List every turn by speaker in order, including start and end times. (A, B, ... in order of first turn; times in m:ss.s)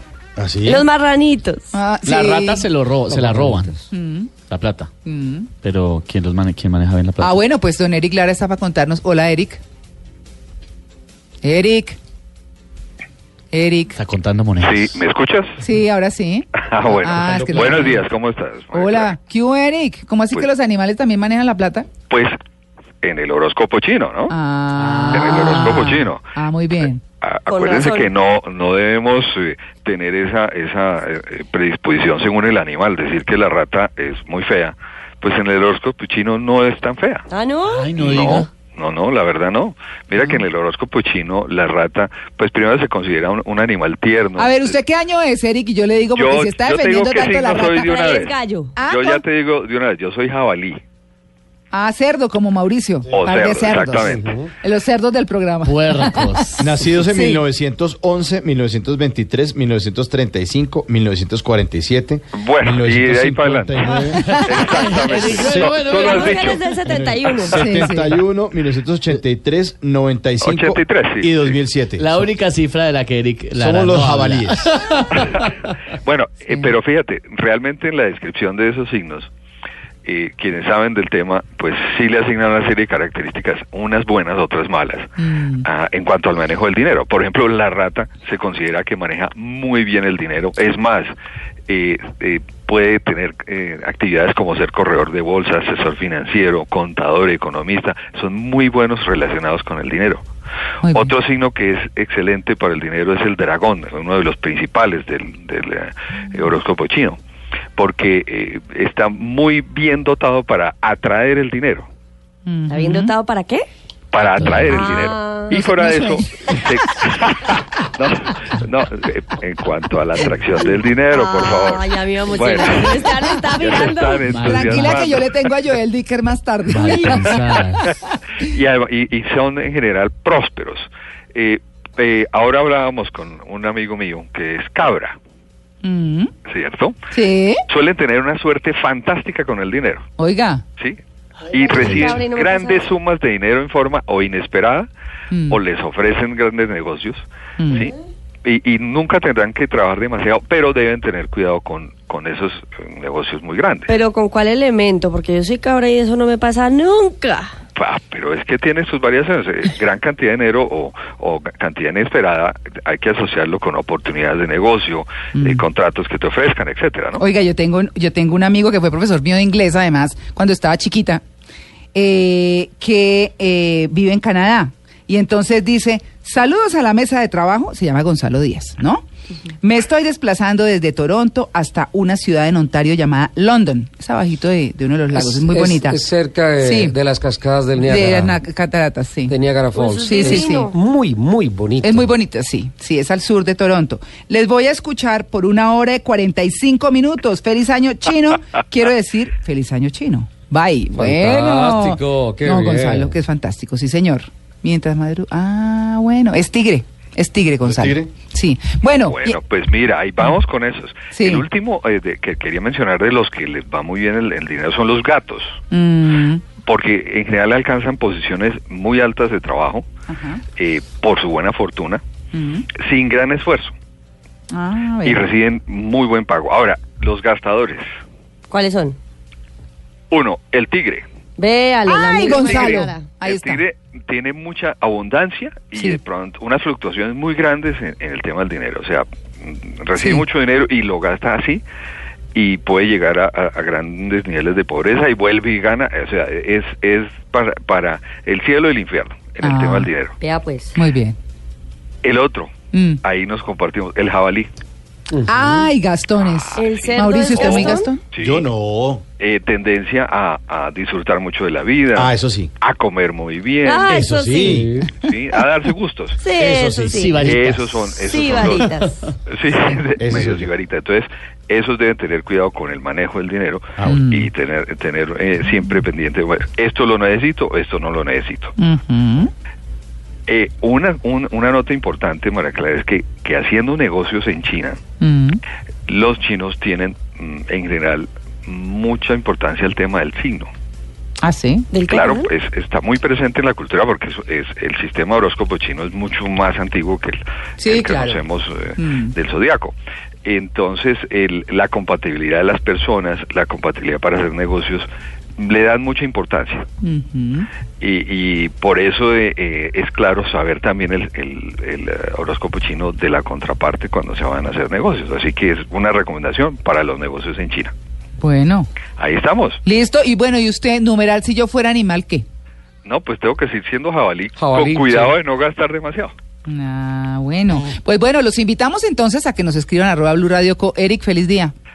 0:00.4-0:00.8 A
0:00.6-0:01.6 B
0:01.7-0:02.7 C
0:02.0-0:03.8 D
0:03.1-0:03.7 E
0:03.9-0:04.3 C
0:04.5-0:04.9 D
0:05.0-0:05.5 C
0:05.6-0:07.4 D
0:07.2-0:09.6 C
0:11.4-0:12.0 C
0:13.5-0:14.0 C
0:14.0-0:15.0 D
0:14.6-0:15.6 F
0:15.6-0:18.0 C
0:16.6-0:19.1 F
0:18.7-0:21.9 C
0:22.1-0:22.3 F
0:23.0-0:24.3 F
0:24.3-0:27.0 C
0:24.8-0:25.9 D
0:25.1-0:26.2 F
0:27.2-0:37.2 F
0:27.5-0:28.1 B
0:37.3-0:37.9 B
0:37.6-0:38.5 D
0:38.0-0:44.8 F
0:40.2-0:40.4 C
0:44.4-0:47.9 C
0:46.1-0:50.8 F
0:47.8-0:48.7 B
0:48.8-0:49.2 C
0:51.7-0:56.4 C
0:53.1-0:54.3 F
0:54.1-0:54.4 E
0:55.6-0:56.8 D
0:56.6-1:04.3 A
0:57.1-0:57.4 C
1:02.4-1:03.8 F
1:03.8-1:06.7 D
1:04.4-1:06.5 F
1:05.4-1:05.8 A
1:05.9-1:07.6 B
1:06.8-1:12.2 A
1:07.5-1:08.2 C
1:10.4-1:11.6 F
1:12.0-1:15.6 D
1:13.6-1:14.7 A
1:16.0-1:19.3 F
1:16.5-1:16.7 C
1:20.0-1:25.1 F
1:25.2-1:25.6 C
1:25.6-1:31.1 F
1:31.7-1:40.2 F
1:40.8-1:41.1 C
1:40.9-1:47.2 F
1:47.8-1:51.9 F
1:52.4-1:53.1 C
1:52.7-1:53.7 B
1:54.1-2:05.3 F
1:54.4-1:54.8 D
1:54.6-1:55.5 B
1:55.5-1:56.7 C
2:01.1-2:04.2 B
2:04.2-2:05.1 D
2:04.4-2:07.8 C
2:06.7-2:07.8 D
2:07.1-2:07.5 F
2:08.4-2:15.2 F
2:15.8-2:16.3 C
2:16.4-2:17.0 F
2:17.1-2:17.6 C
2:17.7-2:20.1 F
2:20.2-2:20.6 C
2:21.5-2:24.9 F
2:21.7-2:22.9 B
2:25.3-2:25.6 C
2:25.5-2:27.9 F
2:27.6-2:27.9 C
2:28.4-2:33.9 F
2:33.9-2:37.5 B
2:37.8-2:47.2 F
2:45.3-2:45.6 C
2:47.2-2:51.2 C
2:51.9-2:59.0 C
2:59.6-3:06.0 C
3:05.1-3:08.4 E
3:06.6-3:07.0 C
3:07.8-3:09.3 C
3:09.3-3:12.1 E
3:09.7-3:10.7 B
3:10.0-3:10.7 C
3:11.8-3:29.4 C
3:20.9-3:23.2 E
3:27.6-3:28.1 A
3:29.0-3:35.6 F
3:31.1-3:31.4 C
3:35.7-3:36.4 C
3:36.6-3:39.8 F
3:40.1-3:40.4 C
3:40.6-3:42.0 F
3:42.3-3:42.7 C
3:42.8-3:43.7 F
3:44.5-3:45.2 C
3:45.0-3:47.8 F
3:48.5-3:49.0 B
3:50.1-3:51.0 F
3:51.4-3:53.0 B
3:51.8-3:53.6 C
3:52.3-4:01.6 F
4:00.0-4:00.2 C
4:02.3-4:10.2 F
4:09.4-4:09.9 C
4:10.2-4:10.7 B
4:10.7-4:11.2 C
4:12.0-4:12.5 F
4:12.7-4:13.0 C
4:13.0-4:14.5 F
4:15.2-4:18.0 C
4:16.2-4:18.4 F
4:16.6-4:17.9 B
4:18.1-4:19.0 A
4:19.2-4:24.0 F
4:21.9-4:22.5 A
4:23.6-4:24.7 B
4:23.9-4:24.8 A
4:24.4-4:24.9 E
4:24.9-4:26.2 F
4:26.2-4:27.2 B
4:26.3-4:27.4 A
4:26.8-4:28.5 D
4:27.2-4:38.5 F
4:28.0-4:28.9 B
4:30.0-4:30.5 A
4:33.8-4:34.0 A
4:33.8-4:34.3 C
4:38.6-4:39.3 C
4:40.3-4:44.8 F
4:45.0-4:45.4 C
4:45.9-4:50.5 F
4:51.2-4:51.7 C
4:51.7-4:52.3 B
4:51.9-5:06.6 F
4:57.6-4:58.2 C
4:58.8-4:59.1 C
5:06.8-5:07.5 C
5:07.8-5:17.7 F
5:18.2-5:18.7 C
5:19.0-5:19.6 F
5:19.6-5:22.2 C
5:22.8-5:26.1 F
5:24.4-5:25.1 E
5:26.4-5:31.5 C